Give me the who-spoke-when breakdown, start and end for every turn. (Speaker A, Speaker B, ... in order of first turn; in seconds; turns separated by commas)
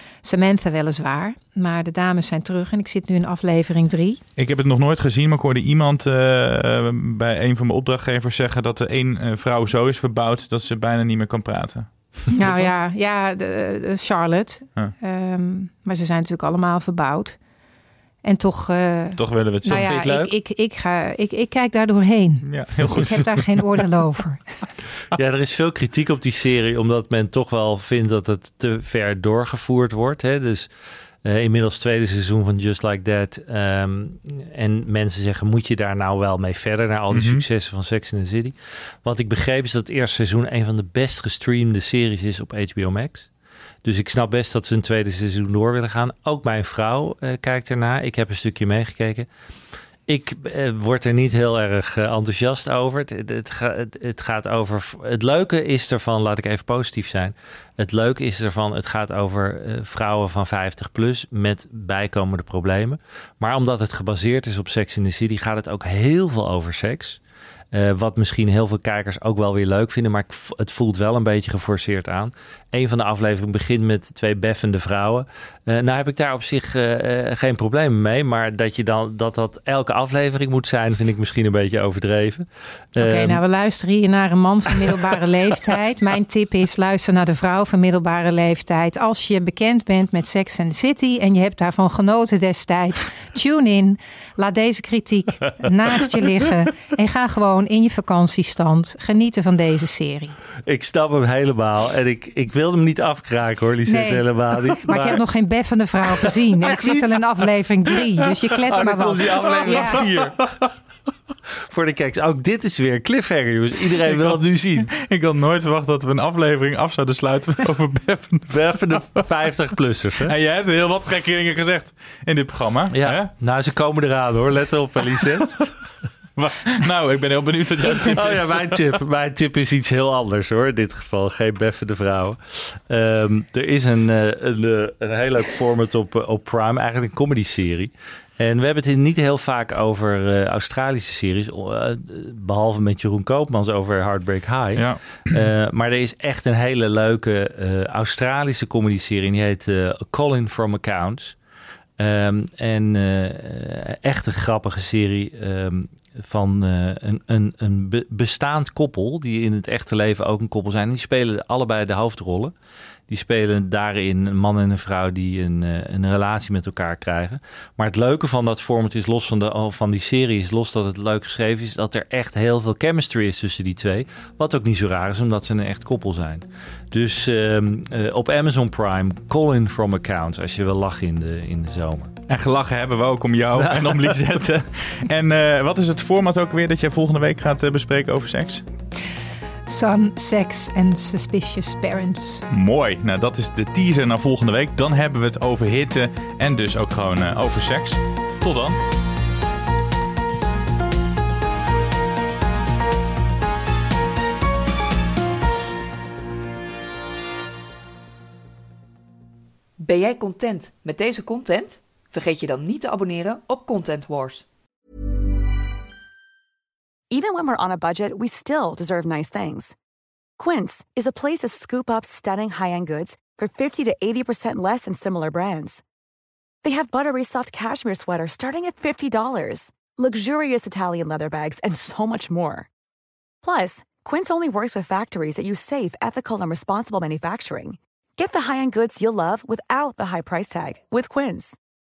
Speaker A: 0.2-4.2, Speaker B: 4.4-12.7, Speaker A: 12.3-17.4, Speaker A: 18.2-24.4, Speaker B: 19.2-19.9, Speaker C: 19.7-20.3, Speaker B: 22.4-23.4, Speaker C: 25.1-30.7, Speaker C: 31.2-43.3, Speaker B: 37.1-37.4, Speaker C: 43.8-49.3, Speaker C: 50.1-67.2, Speaker C: 67.7-83.4, Speaker A: 83.0-100.4, Speaker C: 100.7-105.2, Speaker A: 103.9-110.0, Speaker C: 106.6-107.2, Speaker C: 108.7-110.3, Speaker B: 109.6-110.3, Speaker C: 111.7-114.9, Speaker B: 114.1-118.7, Speaker C: 118.5-120.3, Speaker B: 120.2-123.3, Speaker C: 122.9-125.6, Speaker B: 126.4-128.8, Speaker C: 127.9-151.4, Speaker B: 144.8-145.4, Speaker C: 152.0-162.5, Speaker C: 163.1-182.1, Speaker B: 182.3-188.6, Speaker C: 183.6-184.2, Speaker A: 189.7-192.5, Speaker B: 192.5-198.8, Speaker D: 209.8-214.5, Speaker E: 217.1-219.8, Speaker E: 220.4-225.8, Speaker E: 226.6-232.7, Speaker E: 233.4-241.6